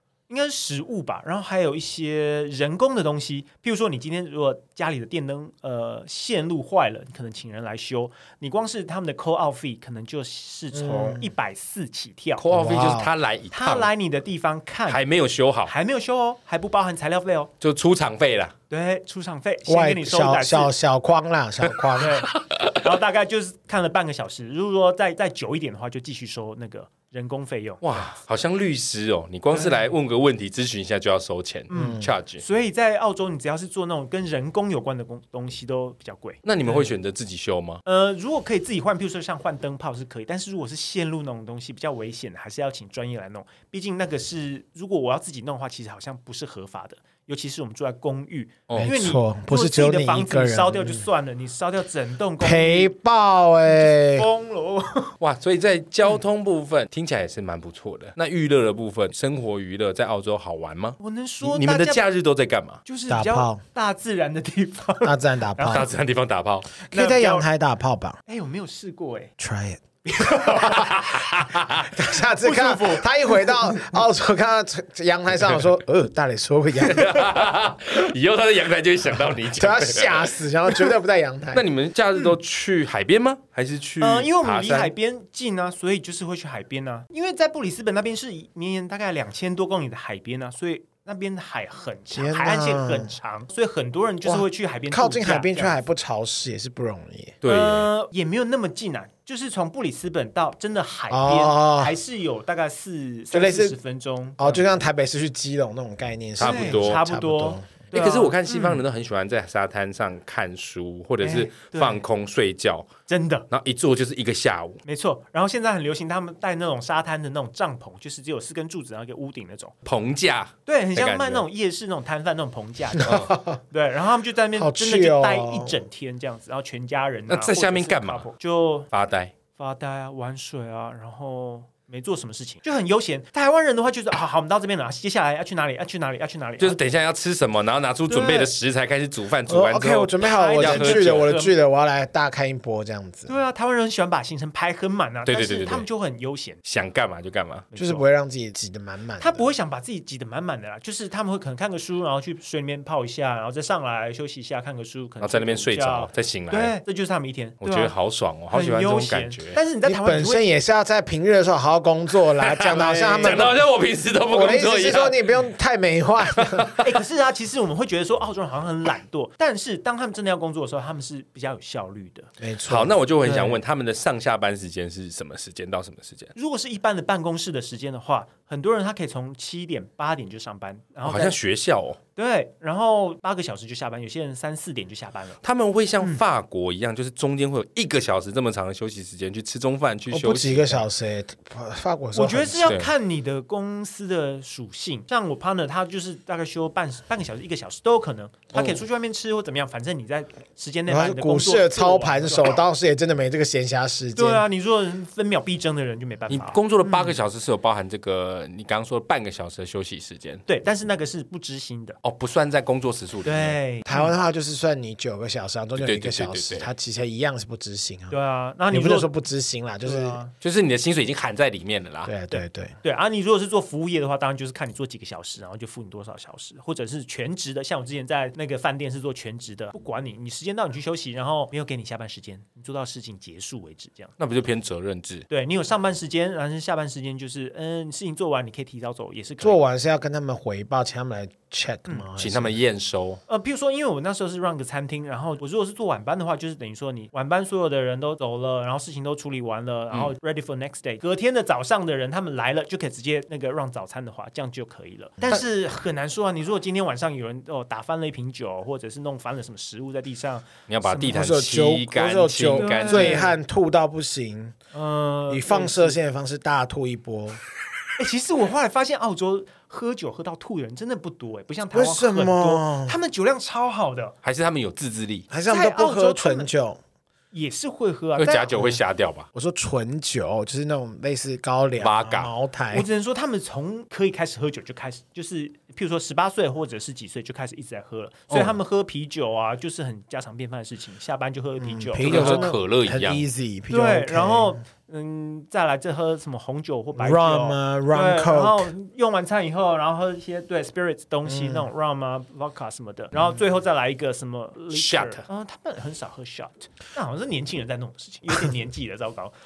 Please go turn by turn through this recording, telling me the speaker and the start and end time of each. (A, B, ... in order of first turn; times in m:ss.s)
0:00.3-0:12.4 A
0:10.7-0:11.3 B
0:12.4-0:13.9 C
0:12.5-0:13.1 B
0:13.5-0:15.0 A
0:14.9-0:15.7 C
0:15.7-0:17.5 A
0:17.6-0:18.5 C
0:18.7-0:20.7 A
0:19.7-0:22.2 B
0:22.0-0:27.8 A
0:27.8-0:32.4 C
0:29.5-0:29.9 A
0:31.7-0:36.9 A
0:31.7-0:32.1 B
0:36.4-0:37.8 C
0:37.8-0:52.9 A
0:48.8-0:51.0 B
0:52.4-0:54.3 B
0:53.7-0:55.1 A
0:55.2-1:02.8 C
1:01.0-1:02.0 A
1:02.8-1:05.9 A
1:03.1-1:03.6 B
1:05.0-1:05.9 B
1:05.7-1:06.7 C
1:06.9-1:07.5 A
1:06.9-1:08.2 B
1:08.3-1:09.3 A
1:09.4-1:09.8 B
1:10.0-1:11.2 A
1:10.7-1:11.9 C
1:11.9-1:17.2 B
1:12.4-1:13.9 A
1:16.8-1:20.3 C
1:19.5-1:21.6 B
1:21.5-1:24.9 C
1:24.0-1:35.8 A
1:32.1-1:33.1 B
1:34.2-1:37.4 B
1:37.4-1:37.9 C
1:37.5-1:44.6 A
1:41.1-1:42.0 B
1:43.3-1:43.8 B
1:44.4-1:47.8 B
1:46.4-1:47.0 C
1:46.4-1:48.8 A
1:47.9-1:52.9 C
1:51.2-1:52.0 A
1:53.1-1:53.5 A
1:53.5-1:54.8 C
1:54.8-1:59.7 A
1:59.8-2:01.4 C
2:00.7-2:08.9 A
2:03.0-2:03.6 B
2:03.0-2:03.3 C
2:04.6-2:05.8 B
2:07.3-2:08.3 C
2:08.9-2:09.3 C
2:09.5-2:16.8 A
2:16.6-2:21.3 C
2:18.1-2:18.5 A
2:19.5-2:23.3 B
2:20.2-2:21.5 A
2:23.3-2:26.6 A
2:25.3-2:25.9 C
2:26.6-2:27.7 C
2:27.7-2:28.1 A
2:27.8-2:29.5 B
2:29.2-2:37.9 A
2:35.2-2:36.8 C
2:37.6-2:39.6 C
2:38.5-2:40.4 A
2:39.8-2:43.6 B
2:42.4-2:45.2 C
2:42.7-2:43.6 A
2:44.3-2:46.7 B
2:46.4-2:46.8 C
2:46.8-2:52.3 A
2:52.4-2:53.0 B
2:52.7-2:56.3 C
2:53.2-2:53.6 A
2:56.4-3:01.4 A
3:01.0-3:02.0 C
3:02.2-3:05.4 A
3:05.4-3:10.8 C
3:10.1-3:12.7 B
3:12.1-3:22.5 A
3:12.6-3:12.9 C
3:18.5-3:18.8 C
3:20.9-3:24.4 B
3:24.2-3:27.2 A
3:26.3-3:30.4 C
3:30.5-3:32.0 A
3:32.0-3:33.6 C
3:33.2-3:34.2 A
3:33.9-3:38.2 B
3:35.8-3:36.7 C
3:38.1-3:39.1 A
3:38.7-3:40.2 B
3:39.8-3:40.3 A
3:40.4-3:42.1 C
3:42.1-3:42.8 B
3:42.3-3:54.1 A
3:54.2-3:55.3 C
3:55.3-3:59.6 A
3:59.4-4:02.6 B
4:02.2-4:03.2 C
4:03.3-4:21.2 A
4:20.7-4:23.3 C
4:21.0-4:24.6 B
4:22.6-4:23.3 A
4:24.7-4:26.0 A
4:25.3-4:27.4 B
4:28.0-4:34.2 A
4:31.7-4:33.0 B
4:34.2-4:35.3 C
4:35.3-4:36.8 B
4:35.4-4:36.5 A
4:37.3-4:38.8 A
4:38.2-4:39.3 C
4:39.3-4:42.9 B
4:41.8-4:42.3 C
4:42.7-4:52.5 A
4:48.3-4:48.6 C
4:51.6-4:54.6 B
4:52.0-4:53.2 C
4:53.7-5:09.3 A
4:57.0-4:58.7 B
5:01.2-5:01.7 B
5:04.7-5:05.2 C